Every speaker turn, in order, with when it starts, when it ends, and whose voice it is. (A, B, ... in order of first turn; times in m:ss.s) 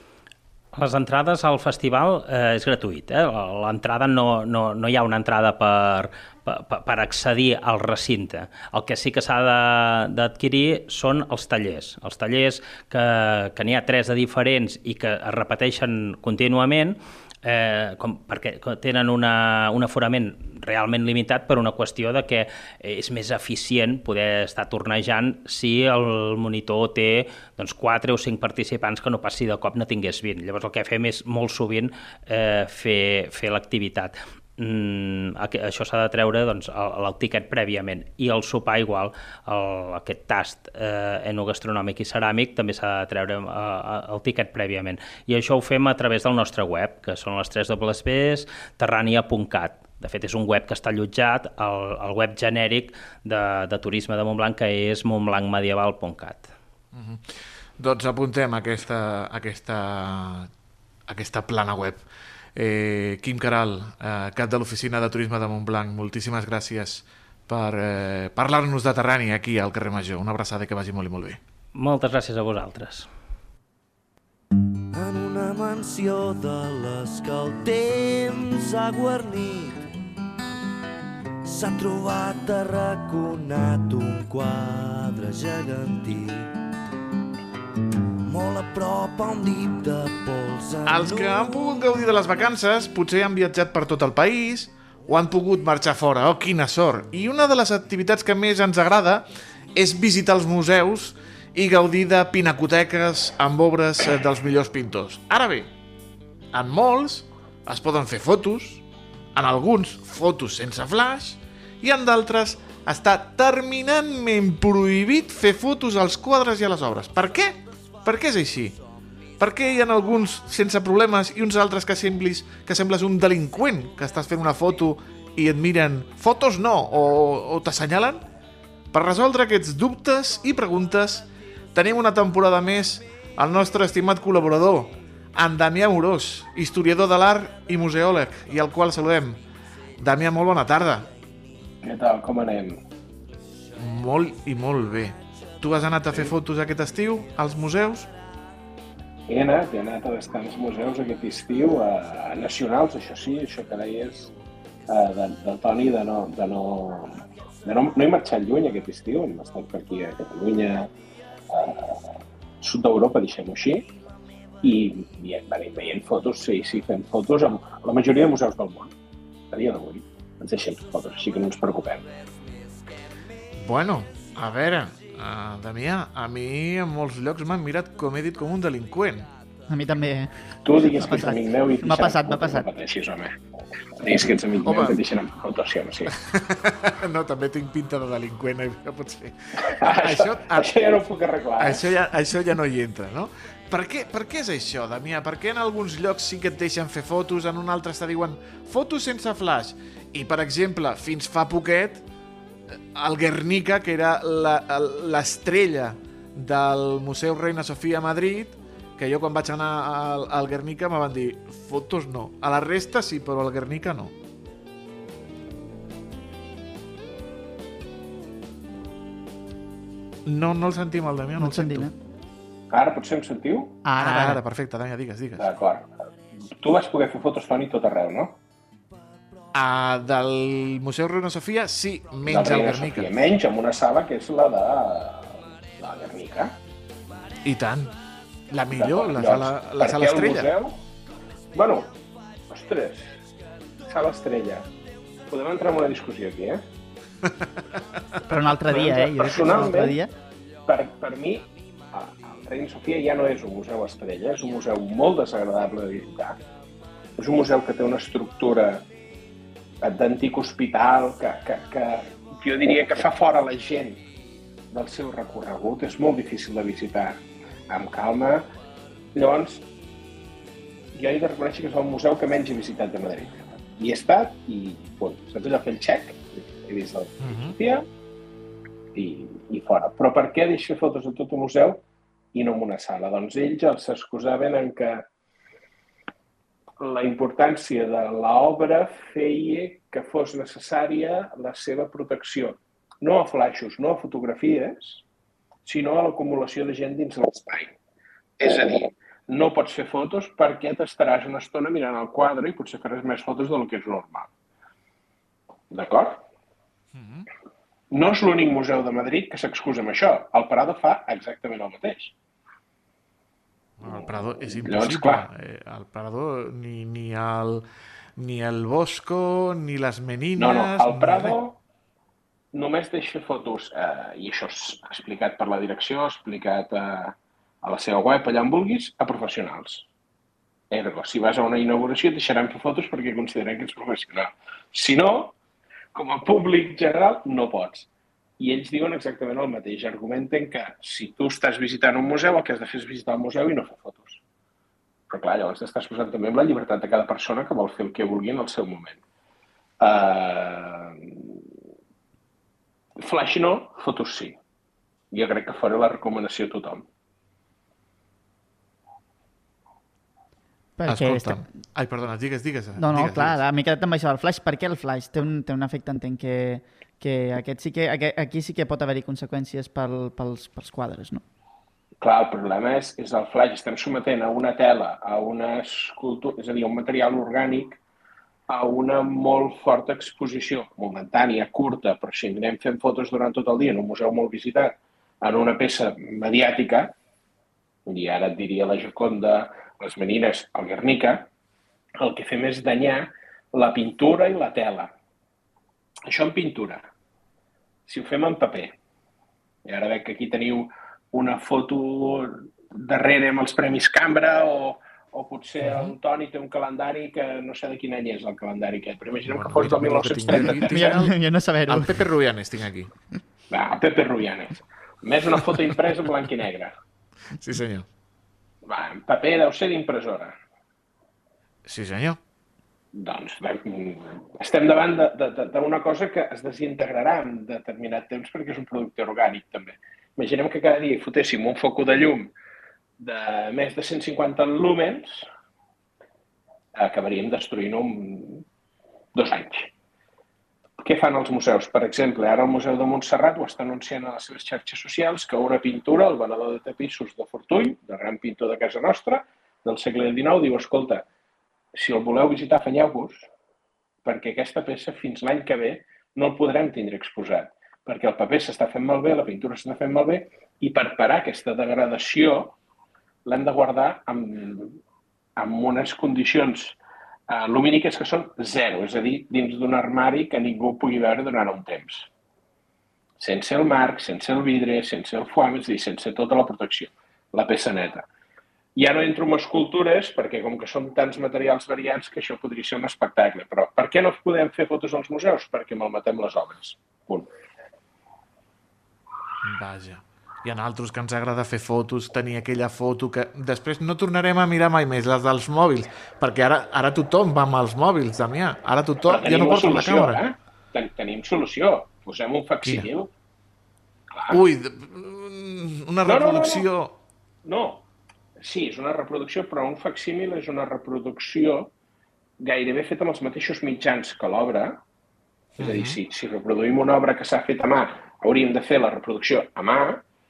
0:00.7-0:56.5 A
0:56.9-1:00.5 B
1:01.1-1:02.0 B
1:02.6-1:11.4 B
1:11.7-1:13.1 A
1:14.9-1:19.8 C
1:21.4-1:26.4 C
1:28.3-1:31.7 C
1:30.8-1:45.7 B
1:46.5-1:48.8 B
1:49.4-1:58.8 B
1:59.4-2:08.2 B
2:08.9-2:19.4 B
2:20.0-2:21.1 B
2:21.8-2:22.8 D
2:23.8-2:28.1 B
2:29.3-2:34.3 D
2:34.9-2:40.9 D
2:41.5-2:43.9 D
2:44.6-2:48.9 D
2:49.5-2:52.1 D
2:53.6-2:59.3 B
2:59.7-3:02.7 E
3:00.6-3:03.4 D
3:04.0-3:06.1 D
3:04.6-3:05.0 B
3:06.2-3:10.8 B
3:09.7-3:11.9 D
3:11.6-3:22.0 B
3:22.9-3:34.1 B
3:40.3-3:41.9 B
3:41.4-3:41.9 E
3:42.7-3:43.8 D
3:43.8-3:44.4 E
3:44.0-3:45.5 B
3:45.4-3:45.9 D
3:46.6-3:48.4 D
3:49.5-3:53.1 B
3:52.3-3:56.6 D
3:57.4-3:57.9 B
3:58.5-4:00.5 B
3:58.7-4:00.8 D
4:01.5-4:01.9 D
4:02.5-4:03.2 D
4:03.8-4:04.7 D
4:05.3-4:06.6 D
4:08.3-4:10.1 E
4:08.7-4:10.0 D
4:10.7-4:16.4 D
4:17.2-4:18.8 D
4:19.8-4:24.0 D
4:24.7-4:28.5 D
4:29.2-4:29.6 D
4:30.9-4:37.9 D
4:37.2-4:37.6 B
4:39.0-4:41.8 D
4:42.3-4:45.1 D
4:46.8-4:55.0 D
4:55.7-4:57.8 D
4:58.4-5:04.3 D
5:05.7-5:06.2 D
5:07.0-5:07.3 B
5:07.9-5:12.1 D
5:13.8-5:17.7 B
5:13.8-5:15.3 D
5:18.2-5:21.4 B
5:20.4-5:21.6 D
5:22.5-5:29.9 D
5:30.7-5:35.4 D
5:35.9-5:37.9 D
5:38.4-5:44.2 D
5:45.1-5:49.0 D
5:49.8-5:51.4 D
5:53.0-5:54.4 D
5:55.1-5:56.9 D
6:00.8-6:01.4 E
6:00.9-6:03.4 B
6:02.8-6:11.2 E
6:12.0-6:17.8 D
6:18.5-6:26.9 D
6:27.9-6:31.3 D
6:32.0-6:34.9 D
6:36.1-6:36.9 D
6:37.9-6:38.8 D
6:39.6-6:51.0 D
6:45.6-6:45.9 B
6:49.2-6:51.1 B
6:50.3-6:52.1 E
6:51.7-6:52.9 B
6:53.5-6:56.8 D
6:57.4-6:57.9 B
6:58.7-7:00.4 D
7:01.7-7:02.2 B
7:02.9-7:12.3 D
7:13.0-7:15.3 D
7:16.8-7:18.4 D
7:19.1-7:19.7 D
7:20.8-7:31.1 D
7:31.8-7:33.3 D
7:34.0-7:42.6 D
7:43.3-7:44.8 D
7:45.4-7:46.8 D
7:47.3-7:52.1 D
7:53.2-7:58.1 D
7:58.8-8:07.3 D
8:09.4-8:20.2 B
8:19.0-8:23.1 D
8:24.1-8:24.4 D
8:24.3-8:27.0 B
8:26.0-8:26.7 D
8:27.4-8:27.9 D
8:28.4-8:31.7 D
8:32.4-8:34.8 D
8:35.6-8:40.0 D
8:35.6-8:36.0 B